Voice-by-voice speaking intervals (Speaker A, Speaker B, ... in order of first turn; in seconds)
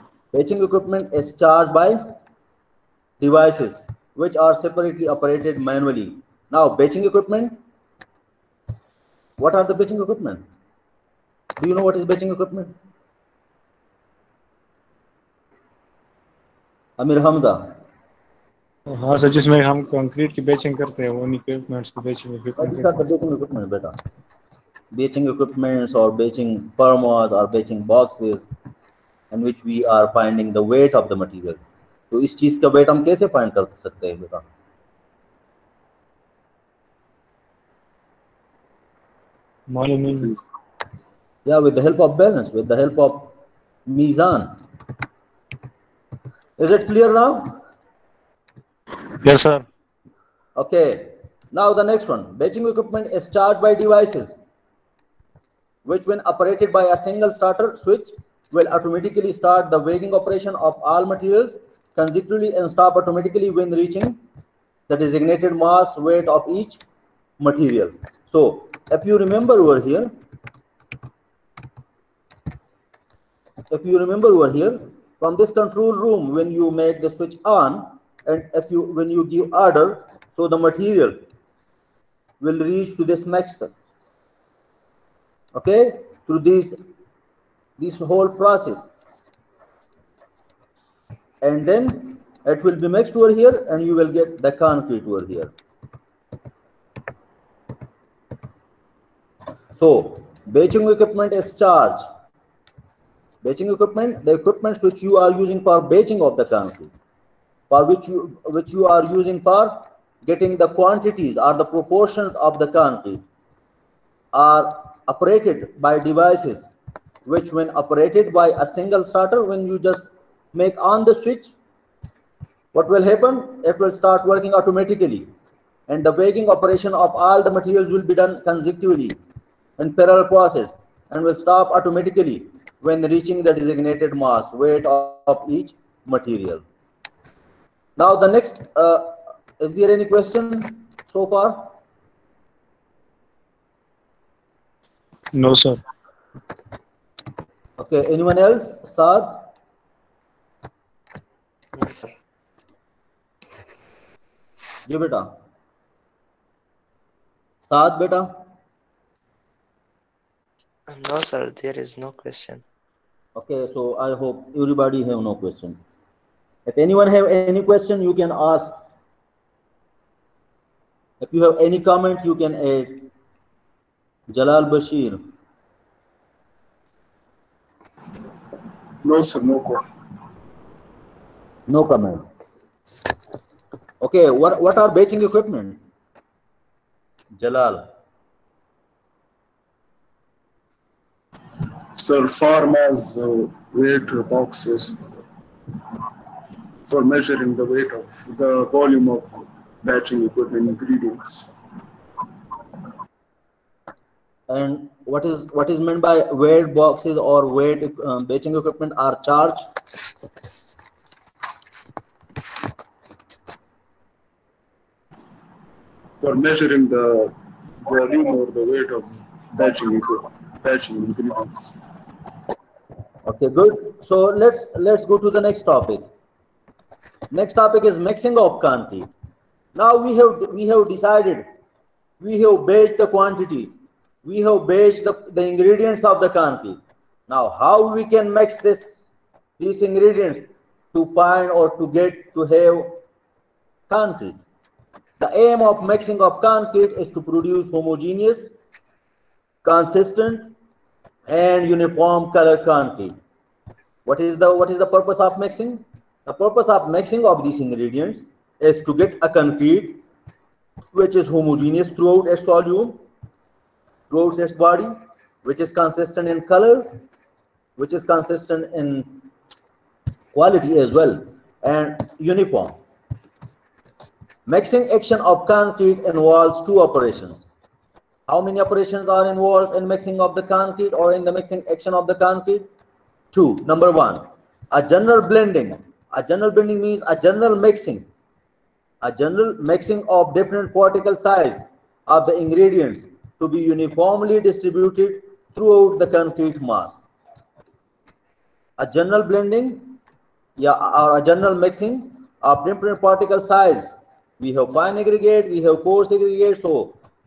Speaker A: 0.3-2.0, 3.2-7.6, 9.4-10.4, 11.6-12.7, 17.0-17.7, 22.6-24.0, 24.9-28.5, 29.3-31.6, 32.1-34.4, 41.5-43.3, 43.9-44.5, 46.6-47.5, 50.5-54.3, 55.8-64.2, 64.9-66.8, 67.4-70.1, 73.7-81.2, 82.4-83.7, 85.5-86.8, 87.8-88.9, 91.4-95.5, 99.8-102.0, 103.4-106.9, 107.7-113.2, 114.3-116.7, 117.2-121.5, 122.7-125.3, 125.9-129.2, 129.8-136.6, 138.0-141.7, 147.8-149.5, 154.8-155.3, 157.6-158.3, 163.3-165.8, 166.7-168.7, 171.2-173.1, 174.3-175.2, 181.7-182.2, 184.0-185.8, 187.4-187.8, 204.5-209.6, 223.2-226.1, 227.3-229.1, 229.7-231.4, 232.2-239.0, 239.6-243.0, 243.9-244.4, 245.2-248.5, 249.6-250.5, 251.3-253.2, 254.0-260.0, 260.9-263.0, 264.1-264.9, 265.4-266.9, 267.8-269.2, 270.3-272.8, 274.5-277.4, 278.3-282.7, 283.3-288.0, 289.0-297.0, 298.8-300.0, 300.6-307.0
Speaker B: 18.9-23.0, 39.7-40.4, 49.2-49.6, 145.3-145.8
Speaker C: 151.8-152.1, 160.9-162.6
Speaker D: 179.0-179.8, 191.9-195.0, 196.8-201.5, 216.2-217.3, 217.8-221.7